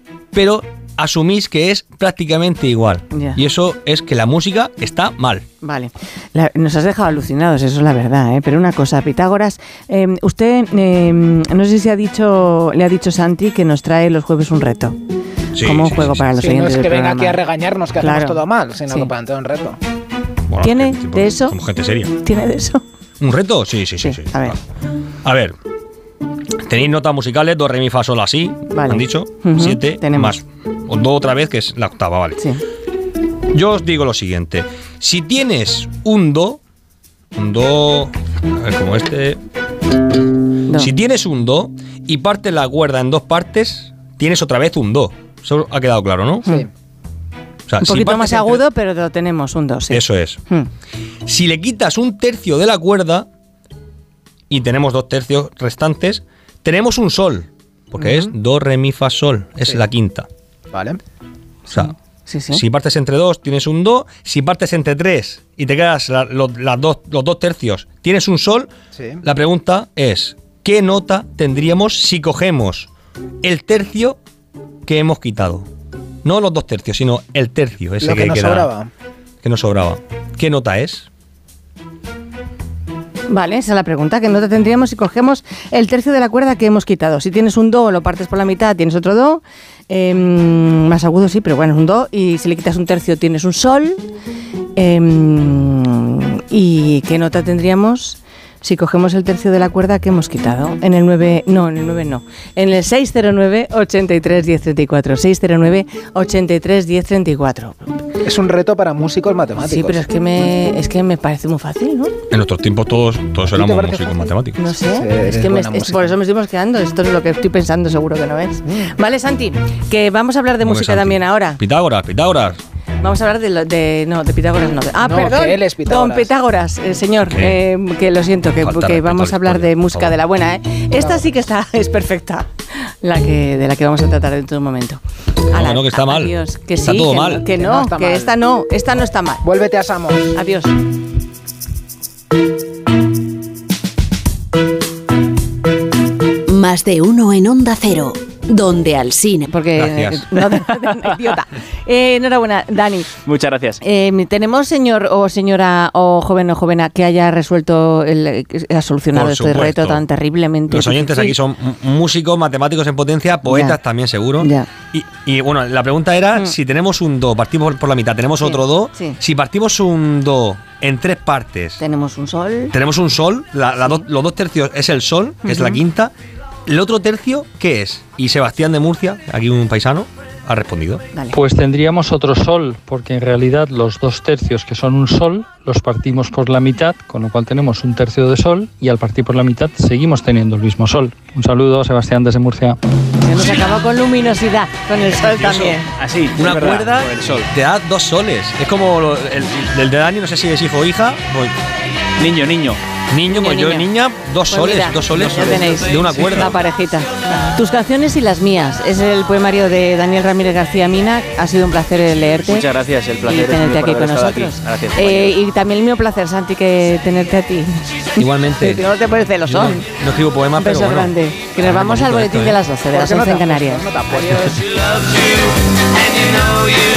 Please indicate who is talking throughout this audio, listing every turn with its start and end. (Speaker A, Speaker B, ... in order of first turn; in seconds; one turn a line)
Speaker A: 0.3-5.5
Speaker B: 3.1-3.4
Speaker B: 5.6-15.0
Speaker A: 15.5-16.3
Speaker B: 15.6-17.4
Speaker C: 16.3-19.8
Speaker B: 18.0-19.1
Speaker A: 20.5-22.1
Speaker B: 20.6-21.6
Speaker B: 22.2-22.8
Speaker A: 23.2-24.6
Speaker B: 24.0-24.6
Speaker A: 25.2-25.6
Speaker A: 26.6-32.4
Speaker B: 28.7-30.4
Speaker A: 33.5-36.6
Speaker A: 37.3-39.4
Speaker B: 40.7-40.9
Speaker A: 40.7-46.5
Speaker A: 47.7-48.6
Speaker B: 47.8-50.7
Speaker A: 49.9-50.4
Speaker A: 51.3-53.3
Speaker A: 54.5-60.3
Speaker B: 58.0-58.3
Speaker C: 60.7-61.0
Speaker B: 61.7-62.6
Speaker A: 62.5-68.7
Speaker C: 68.9-69.2
Speaker A: 69.2-72.9
Speaker A: 73.4-74.2
Speaker A: 74.9-75.7
Speaker A: 76.2-78.7
Speaker C: 78.0-78.9
Speaker A: 79.4-81.1
Speaker B: 83.3-94.0
Speaker B: 94.8-108.0
Speaker C: 108.2-110.0
Speaker B: 109.6-112.1
Speaker A: 112.3-114.7
Speaker C: 113.5-116.1
Speaker B: 114.5-121.6
Speaker A: 120.6-122.6
Speaker B: 123.0-132.5
Speaker C: 125.0-126.3
Speaker A: 127.2-127.6
Speaker A: 128.6-130.2
Speaker B: 133.0-139.4
Speaker A: 135.5-137.4
Speaker C: 137.5-138.3
Speaker C: 139.4-140.4
Speaker B: 140.3-140.8
Speaker D: 146.5-149.5
Speaker B: 149.5-153.1
Speaker A: 149.7-150.3
Speaker E: 153.2-153.8
Speaker B: 153.8-161.4
Speaker A: 159.1-160.0
Speaker A: 160.7-171.8
Speaker B: 163.4-163.8
Speaker B: 164.4-164.7
Speaker B: 168.4-169.2
Speaker B: 171.8-172.8
Speaker A: 172.7-176.1
Speaker B: 175.4-175.8
Speaker A: 176.7-181.0
Speaker F: 181.3-192.8
Speaker B: 193.2-195.9
Speaker A: 195.1-195.8
Speaker E: 196.0-197.5
Speaker A: 196.3-201.6
Speaker E: 202.2-202.8
Speaker A: 203.1-206.6
Speaker B: 203.3-203.9
Speaker B: 204.5-212.7
Speaker E: 212.4-215.4
Speaker B: 213.2-219.9
Speaker A: 218.2-218.9
Speaker A: 219.4-222.6
Speaker B: 220.6-223.9
Speaker C: 222.9-224.7